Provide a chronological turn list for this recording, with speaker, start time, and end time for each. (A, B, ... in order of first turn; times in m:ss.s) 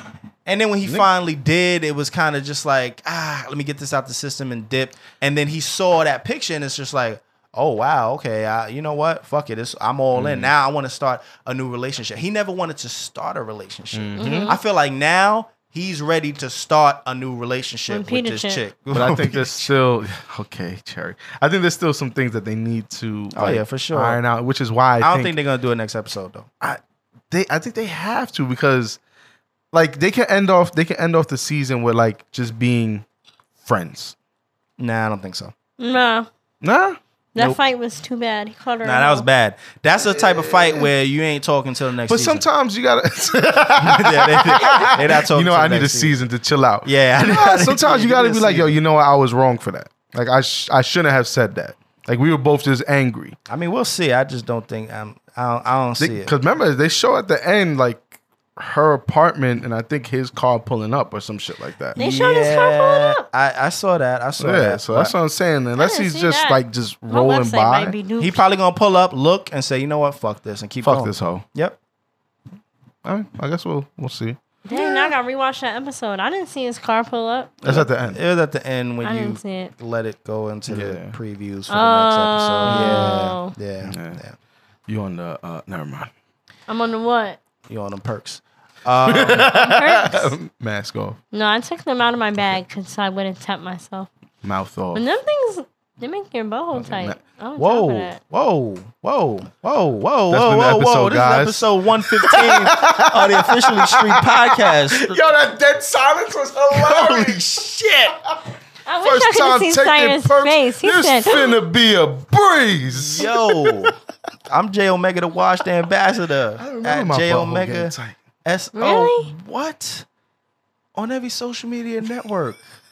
0:00.4-0:19.7 A
0:10.1-0:10.5 B
0:13.9-0:14.6 B
0:14.2-0:14.6 C
0:17.9-0:18.6 C
0:18.9-0:25.3 B
0:23.3-0:24.2 A
0:25.0-0:26.5 A
0:26.6-0:29.0 B
0:29.7-0:33.0 B
0:33.6-0:34.1 B
0:34.8-0:35.5 A
0:35.8-0:36.3 C
0:36.6-0:37.6 B
0:37.3-0:39.3 C
0:38.8-0:42.4 A
0:40.0-0:40.9 B
0:42.0-0:53.4 B
0:43.8-0:46.2 A
0:46.8-0:48.7 A
0:53.5-0:56.3 A
0:56.0-1:02.0 B
1:01.9-1:05.1 A
1:02.0-1:03.2 C
1:04.4-1:08.0 B
1:05.8-1:08.4 C
1:08.2-1:11.8 A
1:10.8-1:11.4 B
1:13.0-1:14.4 B
1:14.6-1:17.5 C
1:14.7-1:15.1 A
1:17.6-1:18.2 B
1:17.6-1:24.4 A
1:19.0-1:19.7 C
1:20.7-1:21.2 B
1:21.7-1:23.5 C
1:22.6-1:23.1 B
1:23.8-1:24.2 B
1:24.9-1:26.1 B
1:26.7-1:27.4 C
1:27.7-1:29.8 A
1:29.0-1:31.2 B
1:29.6-1:30.2 C
1:31.3-1:34.1 C
1:34.4-1:35.0 B
1:34.9-1:38.2 C
1:36.7-1:37.2 B
1:37.6-1:45.2 A
1:40.3-1:47.6 B
1:46.7-1:48.2 A
1:48.8-1:51.6 C
1:49.0-1:53.9 B
1:53.0-1:53.9 A
1:54.5-1:57.9 A
1:56.6-1:58.2 B
1:58.4-2:00.0 A
1:58.8-1:59.3 C
2:01.0-2:02.6 A